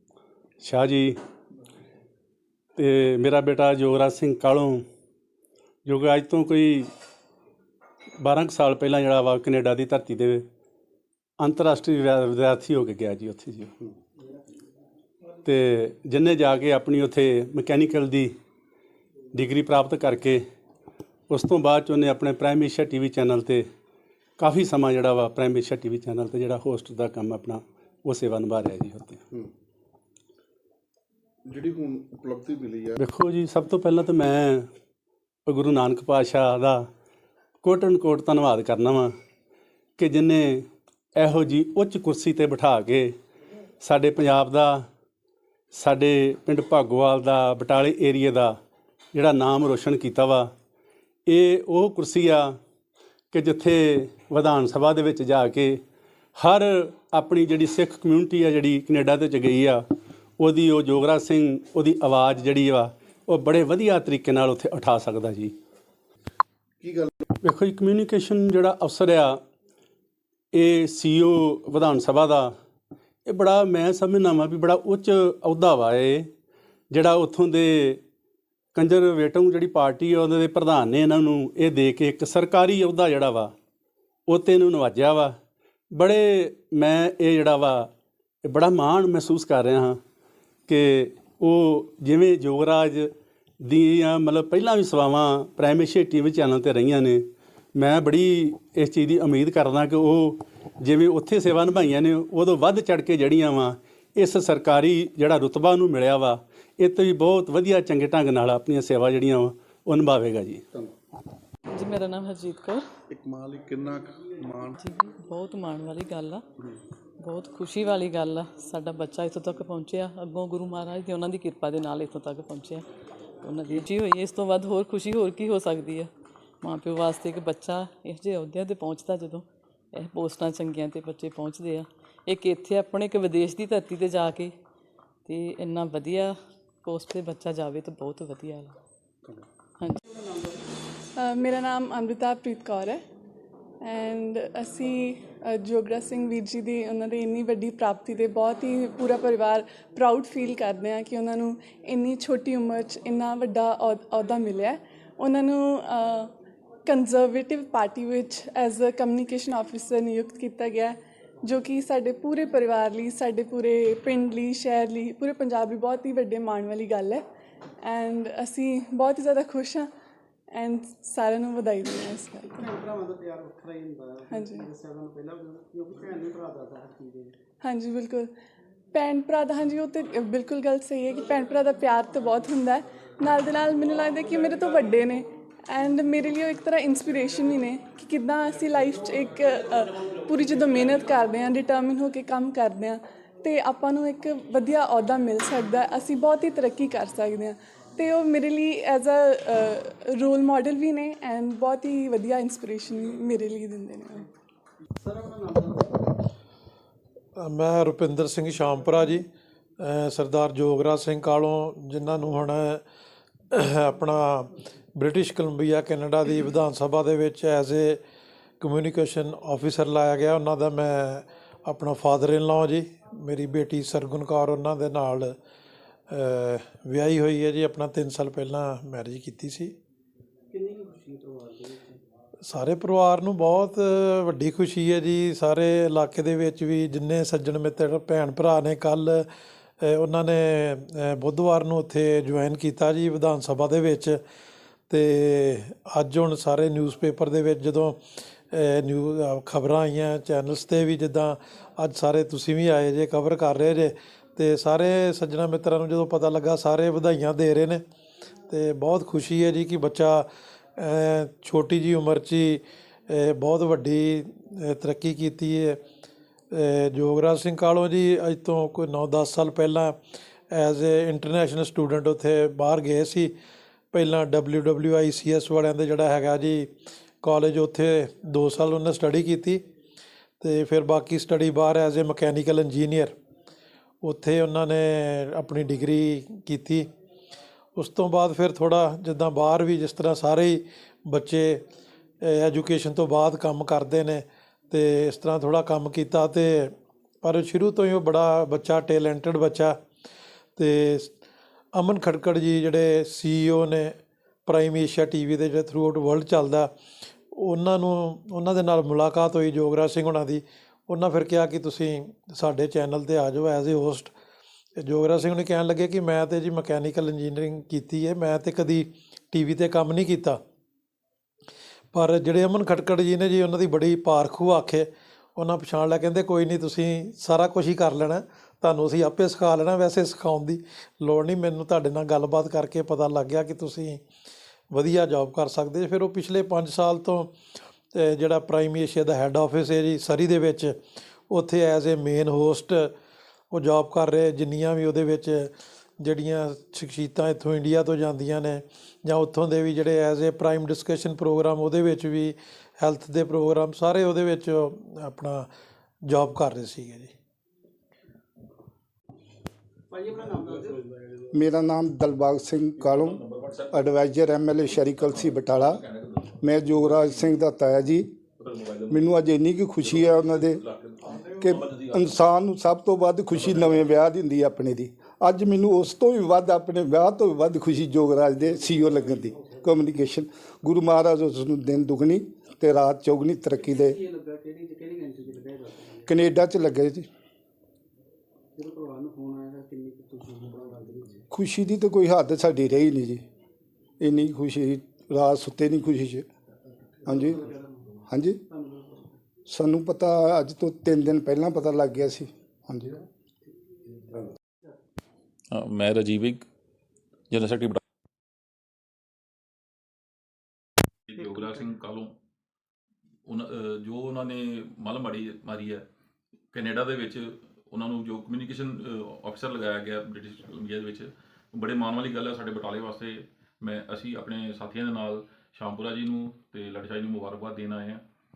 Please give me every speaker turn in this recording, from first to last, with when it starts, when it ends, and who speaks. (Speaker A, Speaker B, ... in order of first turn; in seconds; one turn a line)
Speaker A: 0.6-1.2
Speaker A: 2.8-4.8
Speaker A: 5.9-6.9
Speaker A: 8.2-10.4
Speaker A: 11.4-13.7
Speaker A: 15.4-18.3
Speaker A: 19.3-20.4
Speaker A: 21.3-23.7
Speaker A: 24.4-29.2
Speaker B: 31.4-33.0
Speaker A: 33.0-34.7
Speaker A: 35.5-36.9
Speaker A: 37.6-39.1
Speaker A: 40.0-40.6
Speaker A: 41.2-43.1
Speaker A: 43.8-44.9
Speaker A: 45.7-48.5
Speaker A: 49.1-50.5
Speaker A: 51.3-52.6
Speaker A: 53.3-55.8
Speaker A: 56.4-59.9
Speaker A: 60.4-65.5
Speaker B: 66.8-67.1
Speaker A: 67.4-69.4
Speaker A: 70.5-72.5
Speaker A: 73.2-76.3
Speaker A: 76.9-78.0
Speaker A: 78.8-83.5
Speaker A: 84.3-85.4
Speaker A: 85.9-87.9
Speaker A: 88.4-90.0
Speaker A: 90.7-110.6
Speaker C: 111.7-112.8
Speaker B: 113.1-114.8
Speaker C: 114.8-116.4
Speaker C: 117.2-122.9
Speaker C: 123.4-126.1
Speaker C: 126.6-134.5
Speaker C: 135.2-138.8
Speaker D: 140.1-140.7
Speaker E: 141.2-143.0
Speaker E: 143.8-156.3
Speaker E: 156.8-167.2
Speaker E: 167.8-169.9
Speaker E: 170.5-172.7
Speaker D: 172.5-177.3
Speaker E: 174.3-174.7
Speaker E: 177.6-178.3
Speaker E: 178.9-204.2
Speaker D: 205.0-206.2
Speaker F: 207.4-209.2
Speaker F: 209.8-212.8
Speaker F: 213.5-218.0
Speaker F: 218.6-225.3
Speaker F: 226.1-229.7
Speaker D: 230.5-232.0
Speaker F: 232.4-239.3
Speaker F: 239.8-244.2
Speaker F: 244.9-248.0
Speaker F: 248.5-257.8
Speaker F: 258.5-260.2
Speaker F: 260.8-265.8
Speaker F: 266.5-269.9
Speaker F: 270.5-273.3
Speaker F: 273.9-276.7
Speaker F: 277.2-279.6
Speaker F: 280.4-283.1
Speaker F: 284.0-286.9
Speaker F: 287.8-291.6
Speaker F: 292.2-296.7
Speaker F: 297.2-299.8
Speaker F: 300.6-301.1
Speaker F: 301.7-306.7
Speaker F: 307.3-314.1
Speaker F: 314.8-320.4
Speaker F: 321.9-334.0
Speaker F: 334.7-337.3
Speaker F: 337.9-340.8
Speaker F: 341.3-342.9
Speaker F: 343.5-355.5
Speaker F: 356.1-357.1
Speaker D: 359.9-360.8
Speaker G: 361.3-365.8
Speaker H: 362.8-364.1
Speaker H: 364.7-367.4
Speaker G: 366.4-368.1
Speaker H: 368.4-369.2
Speaker G: 368.9-370.6
Speaker H: 369.8-372.2
Speaker G: 371.4-384.0
Speaker H: 373.3-374.0
Speaker D: 383.6-386.3
Speaker G: 386.1-387.1
Speaker D: 388.6-391.2
Speaker G: 391.3-393.2
Speaker G: 394.0-396.2
Speaker D: 397.0-399.2
Speaker G: 397.1-397.4
Speaker G: 398.1-398.4
Speaker G: 399.4-403.0
Speaker H: 405.5-406.4
Speaker H: 407.3-407.8
Speaker H: 411.1-412.1
Speaker H: 413.2-415.9
Speaker H: 416.5-428.0